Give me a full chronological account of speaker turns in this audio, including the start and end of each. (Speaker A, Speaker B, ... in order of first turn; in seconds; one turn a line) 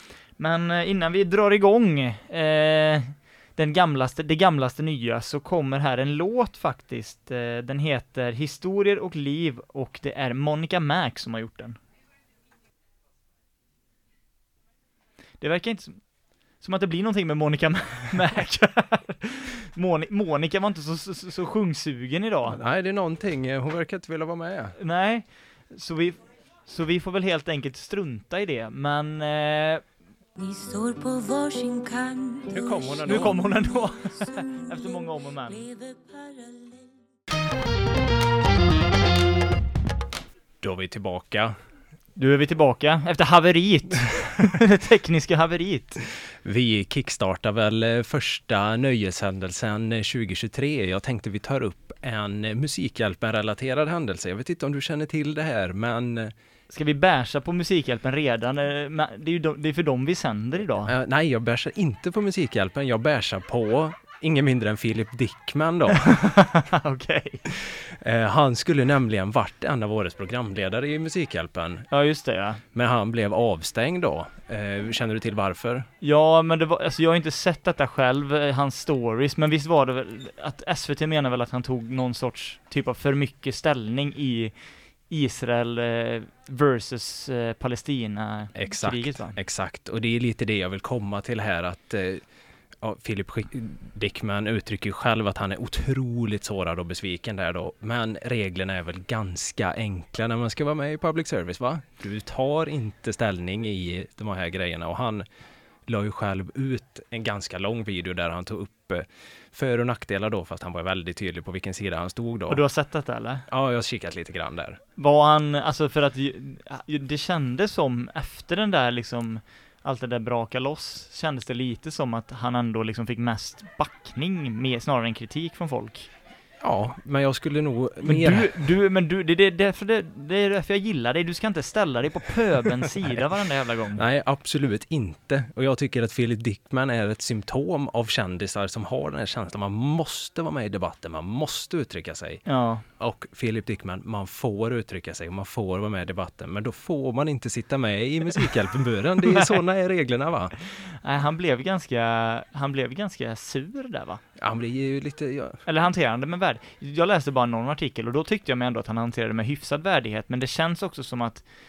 Speaker A: 0.4-11.8
Speaker A: 15.4-16.0
Speaker A: 16.6-22.6
Speaker B: 22.5-24.8
Speaker A: 24.8-29.8
Speaker C: 30.4-37.0
Speaker B: 32.5-33.4
Speaker A: 33.0-35.6
Speaker B: 40.6-41.6
Speaker A: 42.2-46.0
Speaker B: 46.4-56.3
Speaker A: 56.7-60.9
Speaker B: 60.9-66.5
Speaker A: 65.9-67.5
Speaker B: 67.5-71.9
Speaker A: 71.9-72.6
Speaker B: 72.7-75.9
Speaker A: 76.0-84.5
Speaker A: 85.1-89.4
Speaker B: 88.5-92.2
Speaker B: 92.8-105.2
Speaker B: 105.9-112.6
Speaker A: 112.5-113.5
Speaker B: 113.5-114.8
Speaker A: 115.0-126.1
Speaker B: 126.6-128.7
Speaker A: 128.0-134.1
Speaker B: 133.9-142.5
Speaker A: 142.5-142.8
Speaker B: 143.0-150.6
Speaker A: 150.6-154.2
Speaker B: 154.4-155.6
Speaker A: 155.7-161.4